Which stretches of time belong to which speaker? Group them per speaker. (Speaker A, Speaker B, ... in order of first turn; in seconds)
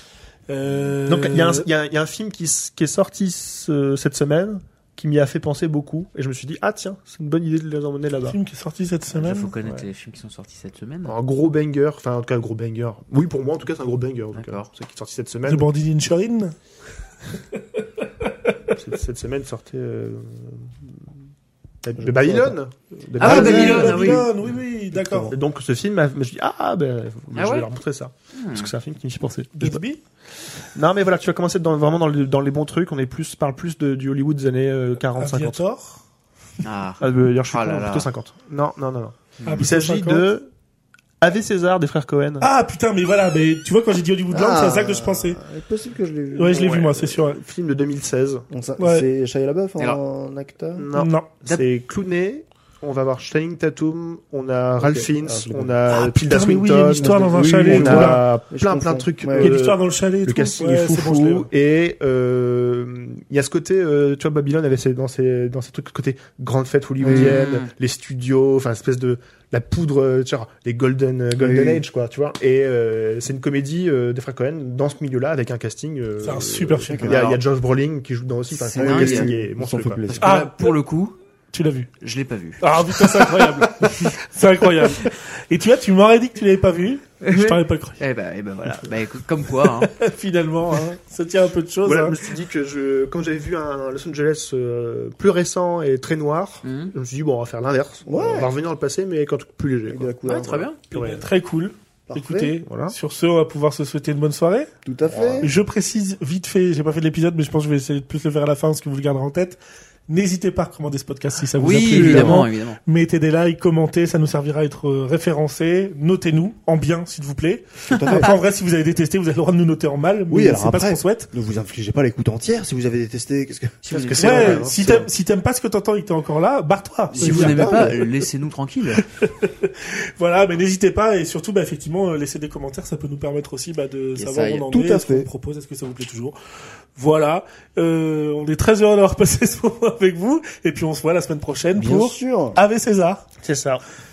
Speaker A: 0.5-1.7, 8.3-9.5, 15.4-16.6, 17.5-18.5, 23.2-25.3, 29.6-30.0, 35.2-36.0, 39.5-40.2, 42.4-45.4, 46.3-47.4, 48.8-49.1, 50.9-51.3, 55.9-58.2, 59.4-61.5, 76.2-77.2, 80.2-80.7, 81.5-81.9, 82.6-88.0, 89.6-92.2, 100.9-104.7, 105.4-121.3, 124.2-128.0, 129.0-136.3, 136.9-143.2
Speaker B: 1.1-8.4, 11.1-15.7, 18.7-20.7, 21.8-24.3, 25.3-29.8, 30.6-35.6, 37.0-40.5, 41.2-42.5, 46.5-48.4, 50.8-80.0, 91.8-100.4, 100.9-101.2, 102.7-102.9, 105.1-105.5, 123.9-125.1, 143.4-143.8
Speaker C: 9.1-11.1, 14.3-14.7, 23.2-24.2, 27.3-27.7, 28.3-28.7, 36.6-38.1, 39.4-39.6, 67.1-67.7, 77.0-77.4, 78.7-79.3, 80.1-81.2, 82.0-82.6, 87.2-89.9, 96.6-96.9, 100.2-100.8, 111.6-112.8, 123.8-124.7, 127.2-129.0, 134.2-134.7
Speaker D: 22.0-22.5, 23.2-24.2, 24.9-25.4, 44.3-46.7, 48.5-50.9, 54.8-55.7, 57.0-59.6, 67.0-67.4, 71.3-71.8, 78.6-80.3, 98.0-98.5, 99.9-100.7, 102.1-102.5, 104.8-105.5, 111.7-112.5, 117.9-118.4, 120.3-124.5, 127.1-128.0, 134.7-135.3, 141.7-142.6